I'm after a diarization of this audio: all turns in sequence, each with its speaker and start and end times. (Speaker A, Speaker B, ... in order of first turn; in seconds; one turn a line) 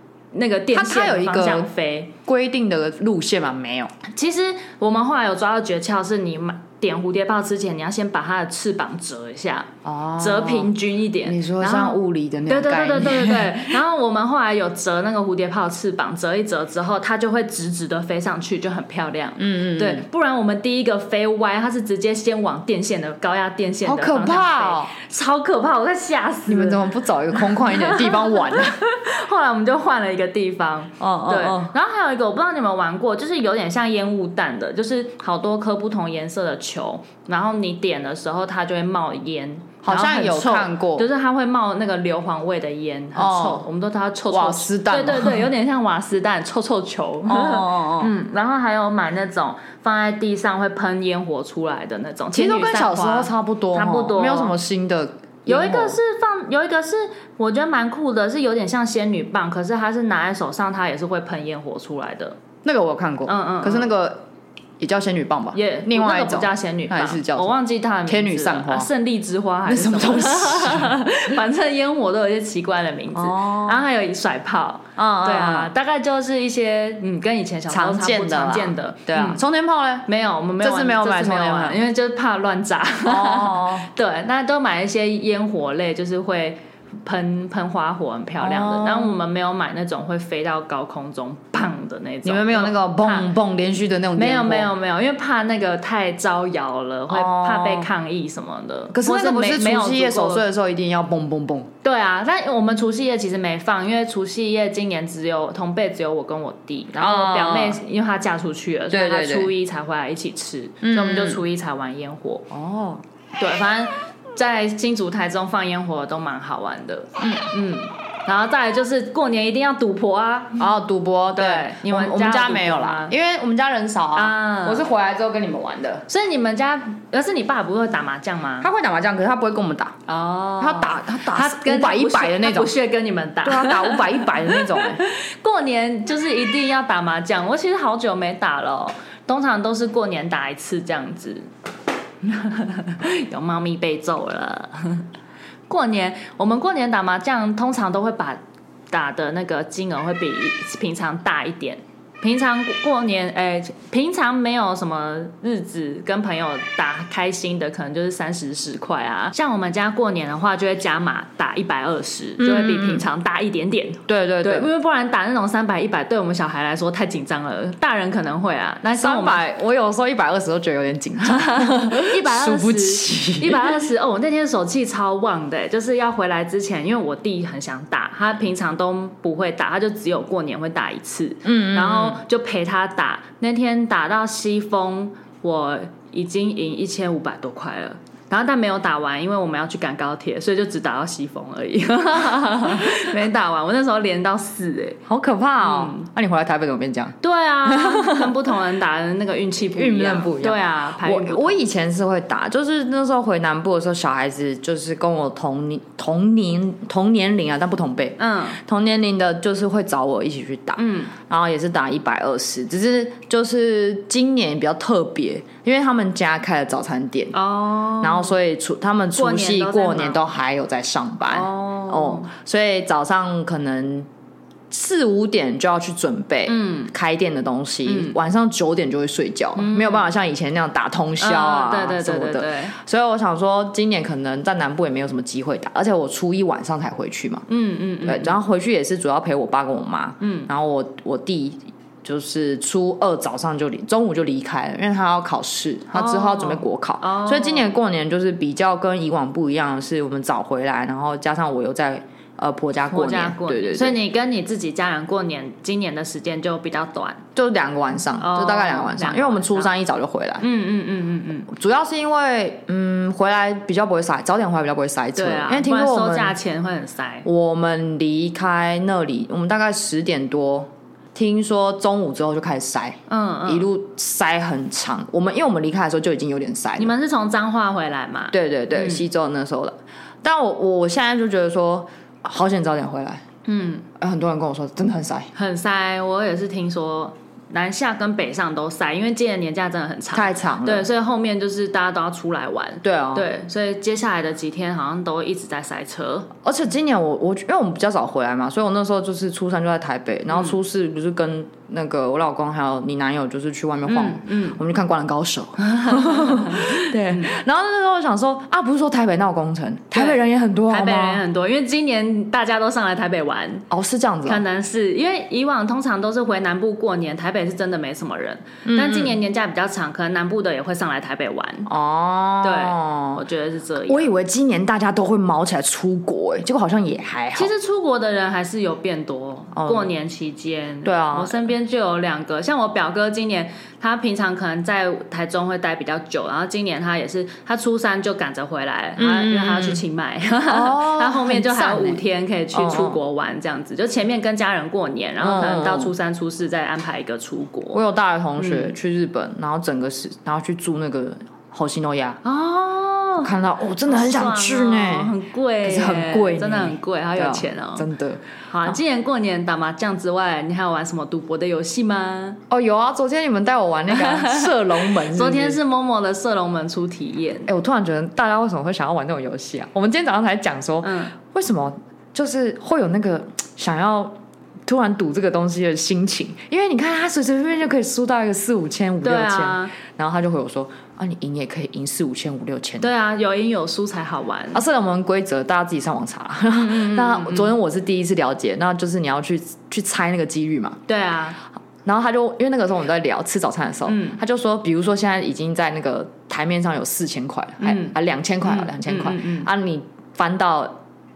Speaker A: 0.3-2.1
Speaker B: 0.7-1.7
Speaker B: 2.2-3.9
Speaker A: 4.1-54.5
Speaker B: 9.8-13.8
Speaker B: 19.4-20.0
Speaker B: 23.8-24.9
Speaker B: 26.5-28.8
Speaker B: 31.0-31.7
Speaker B: 39.8-41.1
Speaker B: 43.1-43.6
Speaker B: 44.3-45.5
Speaker B: 47.2-48.1
Speaker B: 52.3-56.0
Speaker A: 55.5-62.4
Speaker B: 62.6-64.2
Speaker A: 63.2-63.9
Speaker B: 64.8-68.9
Speaker A: 65.5-79.4
Speaker B: 69.7-71.0
Speaker B: 73.1-73.8
Speaker B: 75.0-75.7
Speaker B: 77.7-80.1
Speaker A: 80.0-93.3
Speaker B: 80.6-81.8
Speaker B: 83.0-83.9
Speaker B: 88.4-89.2
Speaker B: 92.2-94.7
Speaker A: 94.2-100.4
Speaker B: 97.1-97.9
Speaker B: 98.9-101.7
Speaker A: 101.8-112.5
Speaker B: 106.9-107.8
Speaker B: 108.9-109.5
Speaker B: 110.8-111.4
Speaker B: 112.5-113.0
Speaker A: 113.4-120.7
Speaker B: 117.2-117.5
Speaker B: 120.6-126.0
Speaker A: 121.3-123.1
Speaker A: 124.1-124.9
Speaker A: 126.1-128.7
Speaker B: 128.6-130.0
Speaker A: 130.1-141.5
Speaker B: 130.6-132.7
Speaker B: 133.4-135.0
Speaker A: 142.2-145.1
Speaker A: 145.7-148.4
Speaker A: 148.9-169.4
Speaker B: 162.4-163.1
Speaker B: 164.1-164.7
Speaker B: 168.9-173.8
Speaker A: 171.2-195.0
Speaker B: 181.4-182.2
Speaker B: 195.1-198.3
Speaker A: 195.6-196.1
Speaker A: 197.2-201.6
Speaker B: 199.7-217.3
Speaker A: 208.2-208.6
Speaker A: 210.8-211.1
Speaker A: 217.3-218.3
Speaker B: 218.0-224.1
Speaker A: 219.2-220.2
Speaker A: 221.3-222.3
Speaker B: 224.7-237.4
Speaker A: 226.4-226.9
Speaker A: 227.8-228.2
Speaker A: 229.6-230.1
Speaker A: 231.2-232.7
Speaker A: 237.5-238.4
Speaker B: 238.0-254.0
Speaker A: 240.2-240.5
Speaker A: 245.9-247.7
Speaker A: 252.9-257.2
Speaker B: 257.4-260.4
Speaker A: 258.2-259.7
Speaker A: 260.4-261.5
Speaker B: 261.5-266.4
Speaker A: 265.1-267.3
Speaker B: 267.2-276.9
Speaker A: 273.1-273.7
Speaker A: 276.8-279.0
Speaker B: 278.3-283.2
Speaker A: 283.4-283.9
Speaker B: 284.0-285.3
Speaker A: 285.3-296.3
Speaker B: 290.1-290.9
Speaker B: 292.8-293.3
Speaker B: 296.4-311.2
Speaker A: 303.9-304.6
Speaker A: 305.6-307.4
Speaker A: 309.9-313.7
Speaker B: 313.7-314.4
Speaker A: 314.2-321.7
Speaker B: 318.6-319.2
Speaker B: 321.7-323.2
Speaker A: 322.4-324.1
Speaker B: 323.9-327.5
Speaker A: 327.3-347.8
Speaker B: 329.5-329.9
Speaker B: 330.8-331.5
Speaker B: 339.0-339.8
Speaker B: 340.5-343.0
Speaker B: 345.2-345.9
Speaker B: 347.7-352.2
Speaker A: 348.4-348.7
Speaker A: 352.2-353.3
Speaker B: 353.2-358.8
Speaker A: 353.9-357.9
Speaker A: 358.5-362.4
Speaker B: 362.5-365.6
Speaker A: 363.9-367.5
Speaker B: 367.4-374.1
Speaker A: 370.8-371.1
Speaker B: 374.7-382.9
Speaker A: 379.0-379.7
Speaker A: 382.8-384.6
Speaker B: 384.5-390.8
Speaker A: 386.5-387.5
Speaker A: 390.9-391.4
Speaker B: 391.8-400.8
Speaker A: 393.9-394.2
Speaker A: 397.6-399.5